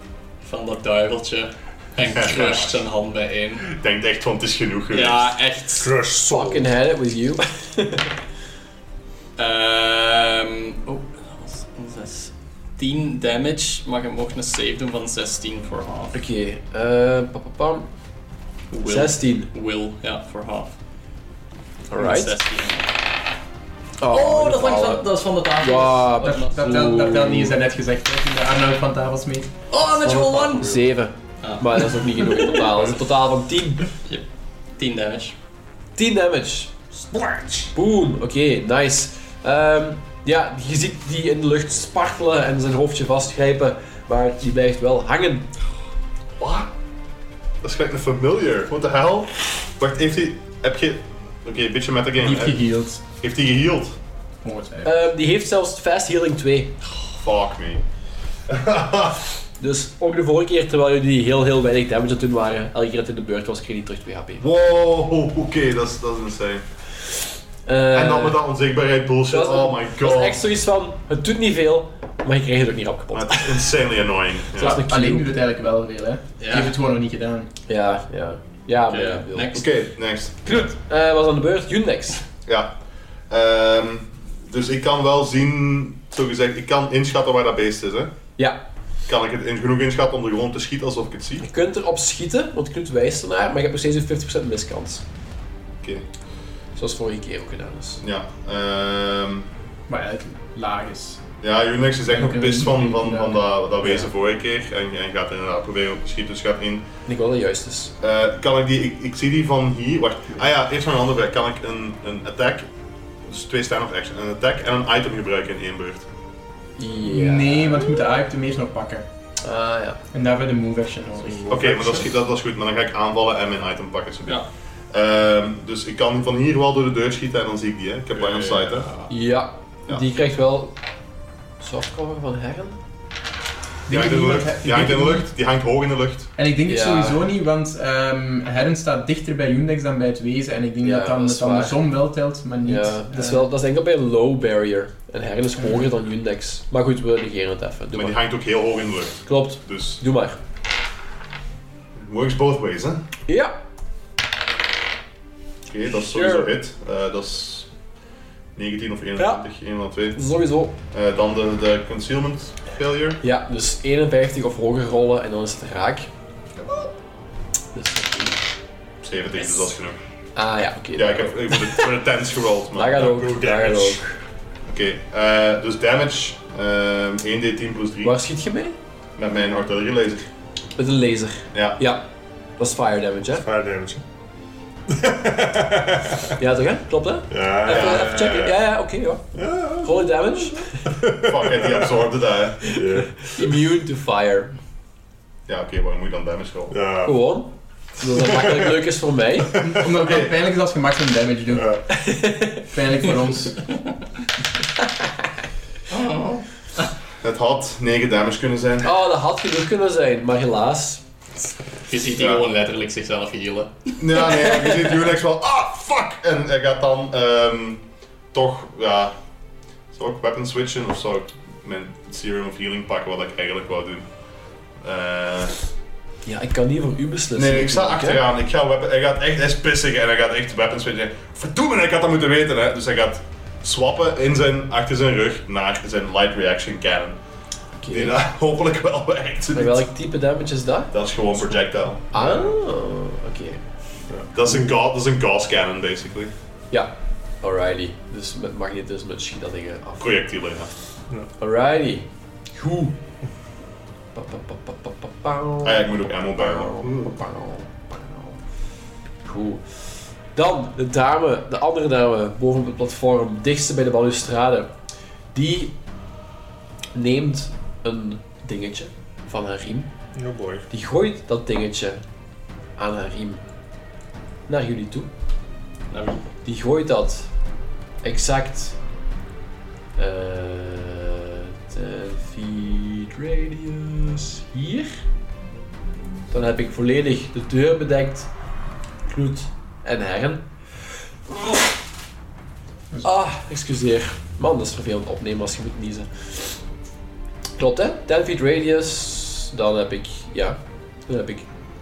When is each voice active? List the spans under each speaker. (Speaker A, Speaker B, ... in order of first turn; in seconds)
Speaker A: 0.4-3.7, 4.9-5.9, 9.4-16.2, 18.7-20.7, 21.9-22.9, 24.1-26.5, 29.7-30.7, 31.4-32.6, 34.8-35.4, 76.4-76.7, 78.9-79.7, 128.1-129.1, 205.9-206.9, 211.9-213.9, 275.9-276.2
Speaker B: 2.1-2.8, 3.7-5.3, 46.4-46.7, 47.6-54.0, 57.2-57.8, 58.5-59.2, 64.4-66.6, 67.9-70.4, 73.1-74.8, 79.5-80.4, 82.5-82.7, 83.3-88.1, 89.1-91.5, 98.0-99.5, 101.4-106.8, 108.0-112.7, 113.3-116.1, 121.5-128.9, 133.9-136.3, 147.9-150.0, 152.0-153.0, 155.7-157.7, 158.6-160.3, 160.9-163.2, 169.0-170.0, 170.9-173.0, 174.7-178.2, 179.2-180.3, 181.5-181.8, 187.7-188.0, 191.3-192.7, 195.5-196.8, 199.8-200.3, 207.2-208.9, 212.2-212.4, 214.0-219.2, 219.9-224.1, 224.8-225.5, 227.3-237.2, 237.9-239.9, 240.9-242.5, 244.3-246.3, 250.0-250.7, 255.6-257.1
Speaker C: 5.8-6.7, 29.9-30.9, 37.1-37.7, 121.5-122.0, 172.9-174.0, 183.3-184.0, 184.9-186.4, 187.3-188.6, 189.3-191.9, 192.7-193.6, 196.7-197.2, 198.0-198.8, 201.5-201.8, 241.3-241.6, 244.1-244.7, 270.1-270.6
Speaker D: 6.3-8.1, 16.1-17.9, 18.9-19.5, 21.9-22.4, 24.0-27.6, 30.6-33.9, 36.0-36.7, 37.7-45.5, 54.8-56.7, 59.6-64.4, 67.7-68.4, 69.3-73.8, 74.5-75.4, 77.7-79.7, 80.4-82.2, 91.4-95.0, 96.8-98.0, 103.8-104.1, 107.1-107.9, 116.8-118.1, 119.4-120.0, 129.1-130.8, 131.6-132.8, 136.7-137.3, 140.8-141.8, 142.6-148.2, 149.2-150.4, 153.3-153.6, 155.9-156.5, 159.2-159.4, 160.1-160.8, 163.2-166.1, 167.7-168.4, 170.3-171.9, 172.7-174.2, 178.0-178.8, 180.8-183.4, 186.4-189.2, 189.8-190.8, 192.6-194.5, 197.1-199.6, 201.9-202.7, 208.8-211.0, 226.2-228.2, 237.8-238.2, 239.5-240.9, 242.1-243.6, 246.7-250.3, 251.4-253.0, 254.2-258.4, 259.2-264.7, 265.3-265.8, 266.9-269.9, 270.7-272.0, 272.8-273.4, 274.5-275.1, 276.4-277.3, 278.0-278.8, 280.0-284.9, 286.3-288.3, 289.1-290.5, 291.3-291.6, 293.0-296.6, 297.6-301.5
Speaker E: 26.2-29.5, 52.2-53.0, 54.4-54.9, 74.6-77.5, 99.9-101.2, 102.1-103.4, 117.0-119.0, 120.1-121.7, 133.9-135.3, 136.4-143.5, 199.6-201.8, 202.6-203.6